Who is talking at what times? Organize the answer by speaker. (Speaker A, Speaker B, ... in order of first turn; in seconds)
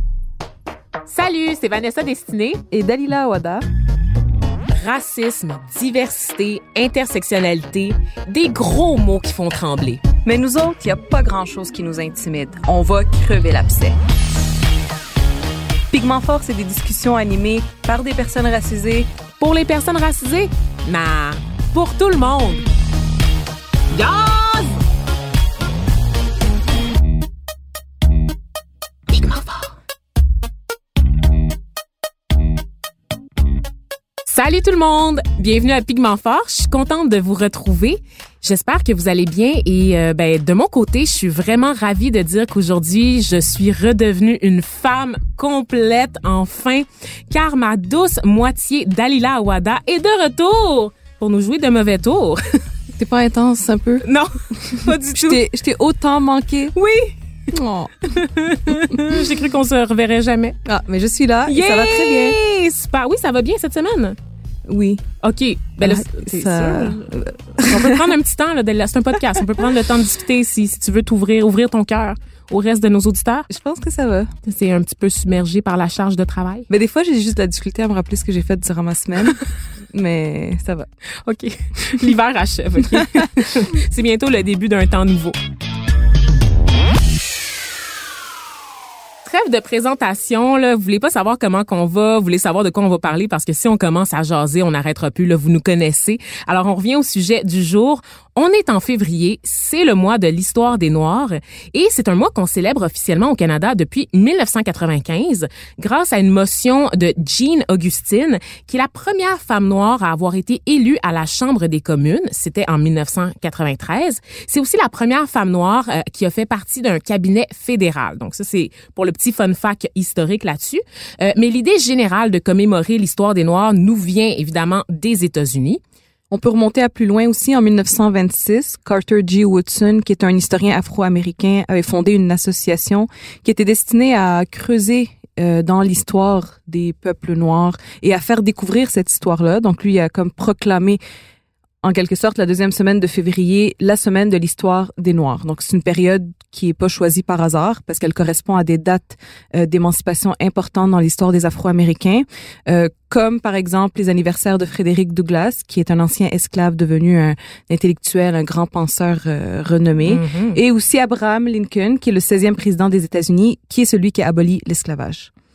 Speaker A: 1.1-2.6, 4.7-10.0, 19.4-22.6, 23.9-24.8, 29.1-29.7, 34.2-52.6, 54.0-55.4, 56.7-57.1, 58.1-60.5, 61.5-64.2, 65.2-73.5, 74.4-76.7, 81.2-85.3, 89.2-125.8, 160.0-160.6
Speaker B: 2.7-3.6, 10.2-14.0, 15.9-19.1, 53.0-54.0, 54.6-56.7, 57.5-58.1, 60.6-62.4, 64.7-65.0, 65.8-68.0, 73.5-74.3, 76.7-80.9, 126.3-141.0, 141.8-165.3